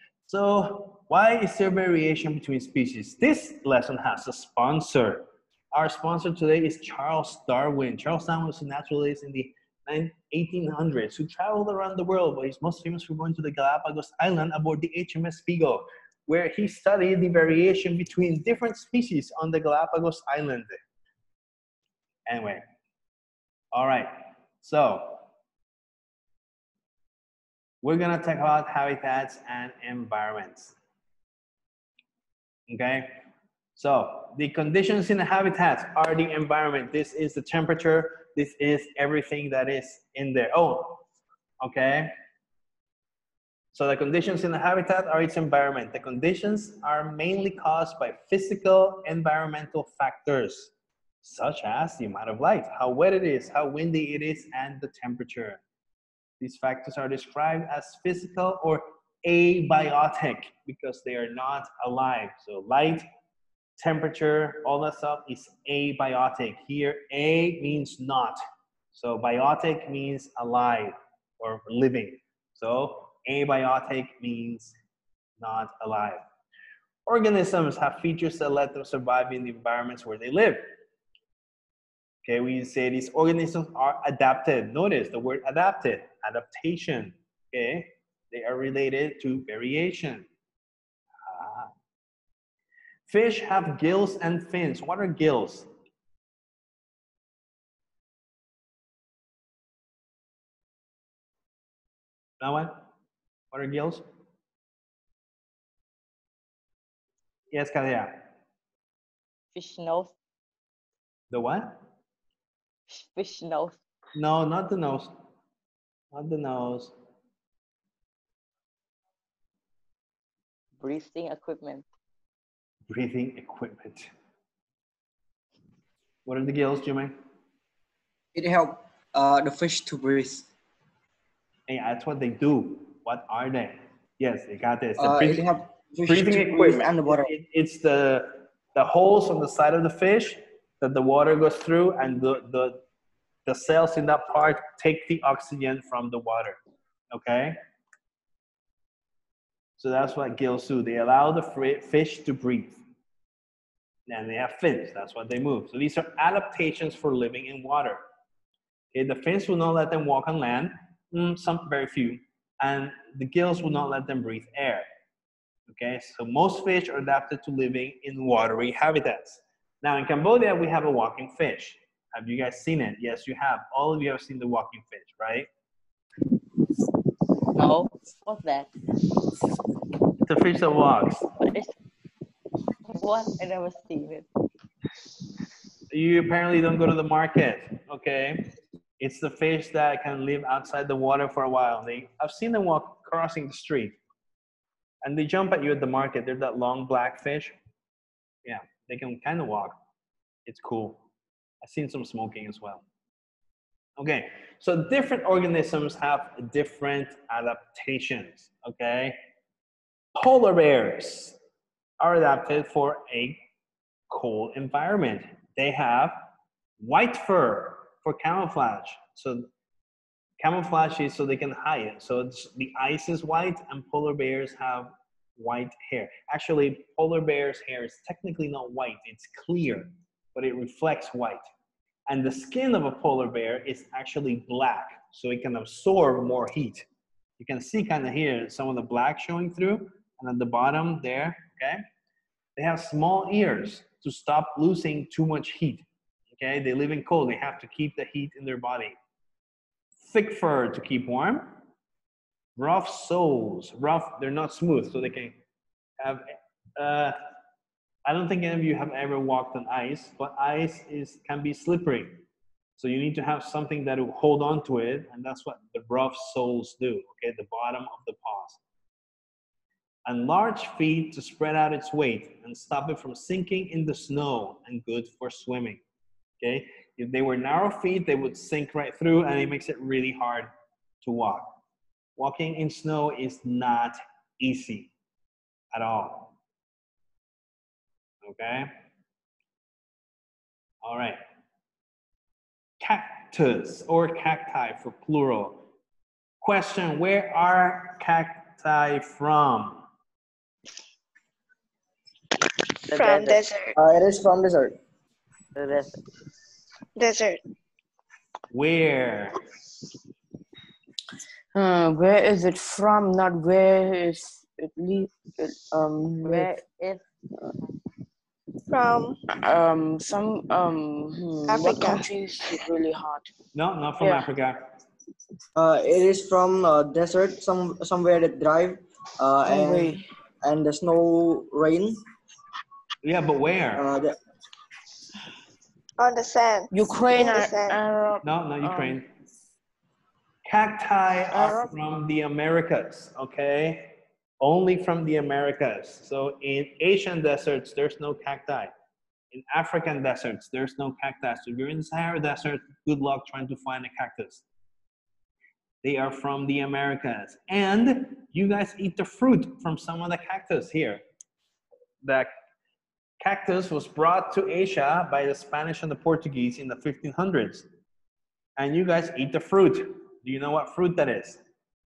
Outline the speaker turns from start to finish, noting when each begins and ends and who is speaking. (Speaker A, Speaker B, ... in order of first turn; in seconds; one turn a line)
Speaker A: 0.2-20.8
Speaker A: 22.3-22.6
Speaker A: 23.7-25.2
Speaker A: 27.8-30.8
Speaker A: 32.7-33.1
Speaker A: 33.7-41.0
Speaker A: 41.6-42.1
Speaker A: 43.7-55.6
Speaker A: 56.4-63.0
Speaker A: 63.8-68.4
Speaker A: 68.9-74.8
Speaker A: 75.4-76.2
Speaker A: 77.0-80.7
Speaker A: 82.2-90.3
Speaker A: 91.2-91.7
Speaker A: 93.1-95.7
Speaker A: 102.4-102.8
Speaker A: 103.5-104.0
Speaker A: 107.5-108.1
Speaker B: 109.5-110.1
Speaker A: 111.3-111.8
Speaker B: 112.9-113.8
Speaker A: 114.1-115.1
Speaker A: 116.1-116.9
Speaker B: 120.8-121.8
Speaker A: 122.9-124.1
Speaker A: 126.2-127.1
Speaker C: 128.3-130.5
Speaker A: 131.7-135.5
Speaker C: 135.0-137.3
Speaker A: 136.1-142.8
Speaker A: 143.5-146.6
Speaker A: 147.1-147.6
Speaker A: 149.8-152.8
Speaker A: 154.1-158.0
Speaker A: 158.9-164.8
Speaker A: 165.7-175.5
Speaker B: 177.5-178.7
Speaker A: 180.2-181.3
Speaker B: 181.4-181.7
Speaker B: 182.9-184.2
Speaker A: 185.9-188.4
Speaker A: 189.0-194.0
Speaker A: 195.0-197.6
Speaker A: 198.4-199.8
Speaker A: 200.5-201.0
Speaker A: 201.6-202.8
Speaker A: 204.0-209.2
Speaker A: 210.2-211.4
Speaker A: 212.0-213.4
Speaker A: 214.1-216.2
Speaker A: 216.8-219.5
Speaker A: 220.4-231.4
Speaker A: 232.1-236.8
Speaker A: 237.4-241.8
Speaker A: 242.6-248.9
Speaker A: 250.0-251.5
Speaker A: 252.6-255.4
Speaker A: 256.8-257.2
Speaker A: 258.1-262.2
Speaker A: 262.8-268.6
Speaker A: 270.1-275.8
Speaker A: 276.4-280.5
Speaker A: 281.0-281.6
Speaker A: 282.2-284.9
Speaker A: 285.7-286.4
Speaker A: 288.2-288.7
Speaker A: 290.8-291.2
Speaker A: 292.8-295.6
Speaker A: 296.4-299.8
Speaker B: 302.9-303.5
Speaker D: 302.9-303.8
Speaker C: 303.8-304.8
Speaker B: 305.6-306.0
Speaker D: 307.0-307.4
Speaker A: 308.5-309.4
Speaker E: 311.5-316.6
Speaker B: 316.2-317.0
Speaker D: 318.7-319.2
Speaker E: 319.3-323.3
Speaker D: 321.5-322.1
Speaker A: 323.6-324.6
Speaker E: 324.0-324.3
Speaker C: 325.6-332.0
Speaker E: 329.5-330.0
Speaker A: 333.0-333.9
Speaker C: 333.8-334.1
Speaker D: 336.0-337.8
Speaker E: 336.7-339.0
Speaker A: 338.2-339.1
Speaker A: 340.5-348.7
Speaker E: 341.3-341.7
Speaker A: 349.3-354.4
Speaker A: 355.8-361.0
Speaker A: 362.0-362.3
Speaker A: 363.2-367.7
Speaker A: 368.6-371.4